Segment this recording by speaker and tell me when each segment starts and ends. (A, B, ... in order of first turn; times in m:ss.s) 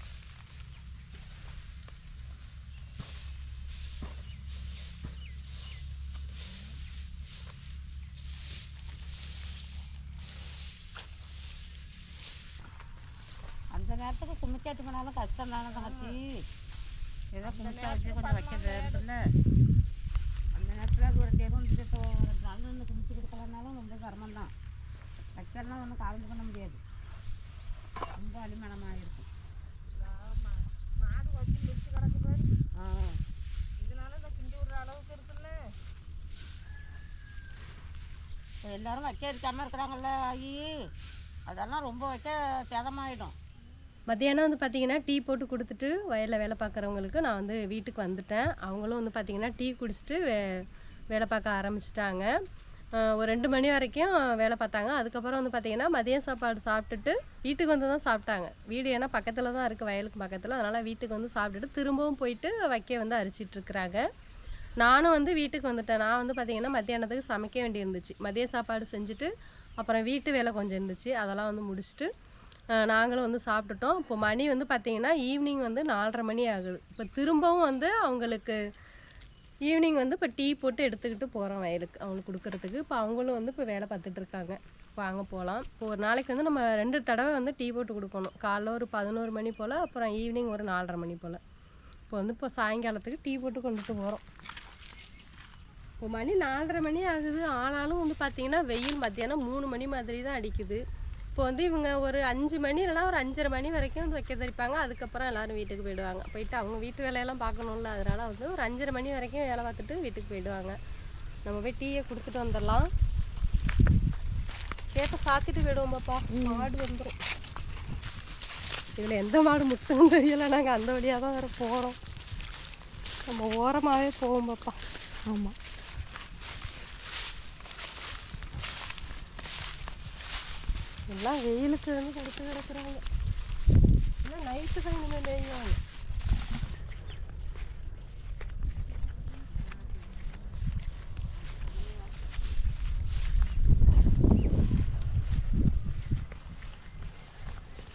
0:13.7-0:16.4 A
0:15.6-0:16.0 B
0:17.3-0:19.1 A
0:17.4-0:19.0 B
0:20.5-0:24.5 A
0:25.4-0:26.8 A
0:28.2-0:29.2 A
0:30.0-0:32.5 B
0:32.8-0:33.2 A
0:33.8-0:35.6 B
0:38.6-0:40.6 A
0:41.5-0:43.3 A
0:44.1-0:52.3 C
0:53.1-1:04.0 C
1:04.8-1:12.1 C
1:12.8-1:18.6 C
1:19.7-1:31.4 C
1:32.1-1:34.2 C
1:36.0-1:40.8 C
1:41.4-1:50.8 C
1:51.4-1:52.9 C
1:54.9-1:57.2 C
1:59.0-2:02.0 C
2:03.3-2:04.8 C
2:11.1-2:13.0 C
2:14.2-2:15.8 C